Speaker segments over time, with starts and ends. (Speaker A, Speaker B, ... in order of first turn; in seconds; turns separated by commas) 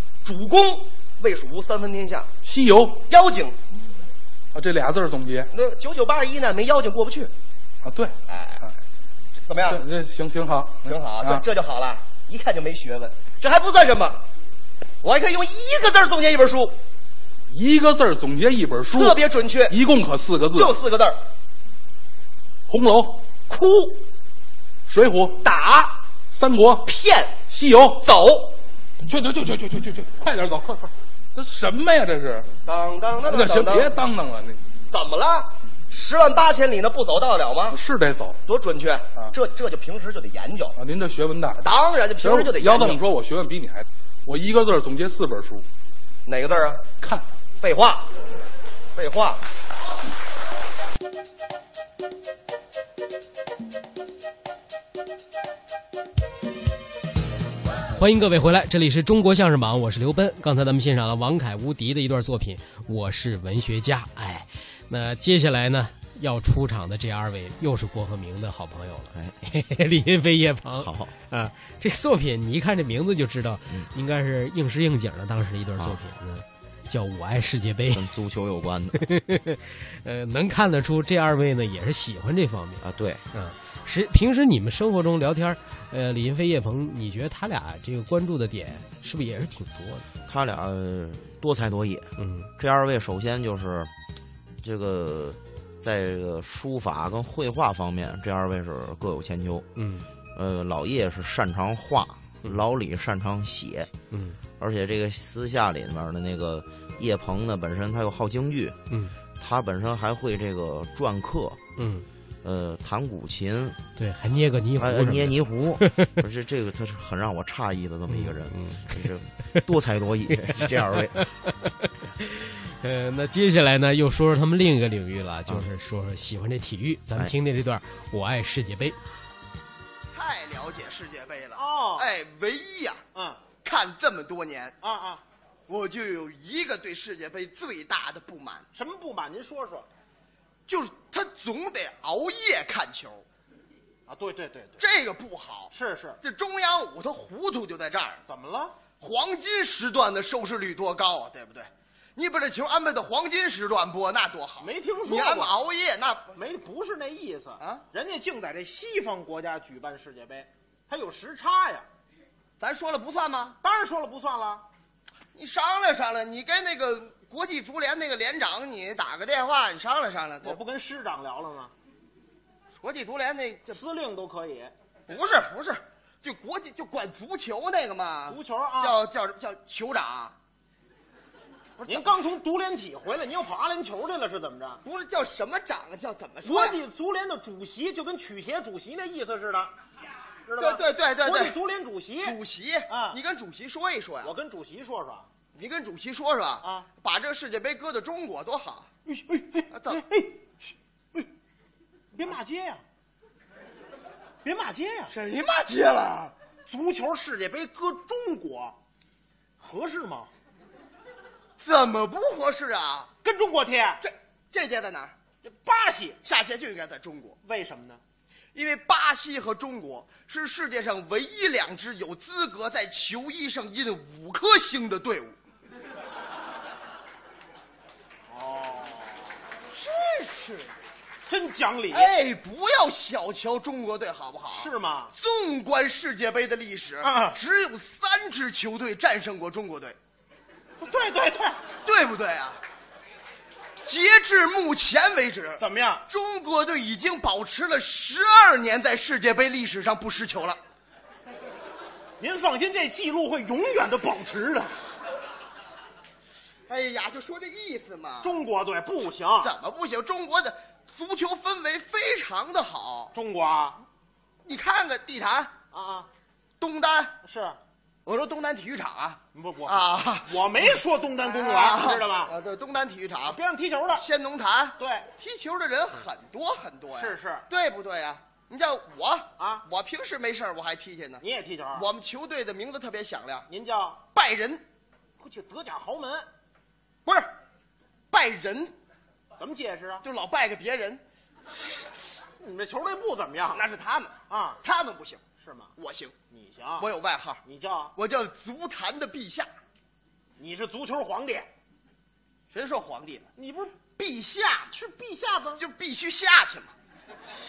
Speaker A: 0.2-2.3, Speaker B: 2.4-3.0, Speaker A: 3.1-3.6, Speaker B: 4.5-5.5, Speaker A: 5.5-7.3, Speaker B: 7.8-8.1, Speaker A: 8.3-8.6, Speaker A: 9.5-9.8, Speaker B: 9.7-11.4, Speaker A: 10.9-14.2, Speaker A: 15.0-16.8, Speaker B: 17.5-19.2, Speaker A: 18.9-19.8, Speaker B: 19.7-20.8, Speaker A: 20.5-21.2, Speaker B: 22.7-23.2, Speaker A: 23.5-24.0, Speaker B: 24.9-25.4, Speaker A: 25.4-26.0, Speaker B: 26.3-26.9, Speaker A: 26.8-27.4, Speaker B: 27.5-28.0, Speaker A: 28.0-28.6, Speaker B: 29.0-32.5, Speaker A: 32.7-33.9, Speaker B: 33.3-34.6, Speaker A: 34.9-37.8, Speaker B: 37.7-38.4, Speaker A: 38.5-40.8, Speaker B: 40.8-41.6, Speaker A: 41.6-43.0, Speaker B: 42.2-45.6, Speaker A: 46.2-46.9, Speaker A: 47.6-48.1, Speaker A: 49.0-49.4, Speaker C: 58.0-78.1, Speaker D: 69.1-69.4, Speaker D: 70.8-71.1, Speaker D: 77.9-79.1, Speaker C: 79.0-90.1, Speaker D: 82.8-83.2, Speaker D: 90.3-93.9, Speaker C: 92.2-92.5, Speaker D: 94.6-99.7, Speaker C: 99.8-100.1, Speaker D: 100.3-103.9, Speaker C: 104.1-104.4, Speaker D: 104.6-108.8, Speaker C: 108.9-109.2, Speaker D: 109.4-111.6, Speaker C: 111.8-112.1, Speaker D: 112.4-113.8, Speaker C: 114.0-116.2, Speaker D: 114.8-121.2, Speaker C: 118.1-119.6, Speaker C: 120.3-129.0, Speaker E: 130.1-133.0, Speaker F: 131.6-132.1, Speaker F: 133.1-133.4, Speaker E: 133.6-134.7, Speaker F: 134.8-135.2, Speaker E: 135.7-138.7, Speaker F: 138.7-139.9, Speaker E: 140.7-143.2, Speaker F: 144.1-144.8, Speaker E: 144.8-148.2, Speaker F: 145.7-146.2, Speaker F: 148.3-148.8, Speaker E: 149.0-156.3, Speaker F: 154.6-155.6, Speaker F: 156.3-161.9, Speaker E: 162.6-163.6, Speaker F: 163.6-164.6, Speaker E: 165.3-170.6, Speaker F: 170.4-171.7, Speaker E: 172.8-173.8, Speaker F: 173.7-174.7, Speaker E: 175.1-180.3, Speaker F: 178.3-179.0, Speaker E: 181.8-182.1, Speaker F: 181.8-184.8, Speaker E: 184.8-186.8, Speaker F: 186.4-189.7, Speaker F: 190.5-193.2, Speaker E: 190.6-191.6, Speaker E: 192.2-194.3, Speaker F: 194.2-195.3, Speaker E: 195.5-198.9, Speaker F: 196.6-196.9, Speaker F: 199.1-200.4, Speaker E: 199.7-200.0, Speaker F: 202.1-202.8, Speaker F: 204.4-205.1, Speaker E: 205.1-206.3, Speaker F: 206.7-208.8, Speaker F: 209.6-210.3, Speaker E: 211.6-213.1, Speaker F: 213.2-214.0, Speaker E: 214.0-215.1, Speaker F: 215.4-216.2, Speaker E: 216.2-217.4, Speaker F: 217.4-218.0, Speaker E: 218.5-225.4, Speaker F: 228.3-229.3, Speaker E: 229.7-230.7, Speaker F: 231.3-232.2, Speaker E: 231.9-240.0, Speaker F: 234.5-235.1, Speaker F: 237.0-237.4, Speaker F: 240.8-241.6, Speaker E: 241.8-242.6, Speaker E: 243.8-250.6, Speaker F: 245.6-246.0, Speaker F: 252.2-254.8, Speaker E: 256.7-258.3, Speaker F: 258.2-259.5, Speaker E: 259.4-263.1, Speaker F: 263.1-263.8, Speaker E: 264.4-265.5, Speaker F: 265.7-266.1, Speaker E: 266.6-267.1, Speaker F: 267.2-267.6, Speaker E: 268.1-270.4, Speaker F: 269.3-272.3, Speaker E: 271.2-273.4, Speaker F: 273.3-274.0, Speaker E: 273.9-283.4, Speaker F: 274.8-275.1, Speaker F: 276.9-277.4, Speaker F: 279.4-279.6, Speaker F: 281.2-281.9, Speaker F: 283.5-284.0, Speaker E: 284.1-284.6, Speaker F: 285.2-286.3, Speaker E: 287.1-287.3, Speaker E: 288.1-288.7, Speaker F: 289.4-290.0, Speaker E: 290.0-291.0, Speaker F: 292.4-293.7, Speaker E: 293.5-295.2, Speaker F: 294.3-294.6, Speaker F: 295.4-295.7, Speaker E: 295.8-296.1, Speaker F: 296.3-296.9, Speaker E: 296.8-297.4, Speaker F: 297.4-297.9, Speaker E: 297.9-299.5, Speaker F: 300.4-301.5, Speaker E: 302.5-303.3, Speaker F: 303.4-303.8, Speaker E: 303.9-304.8, Speaker F: 304.7-305.6, Speaker E: 305.6-306.7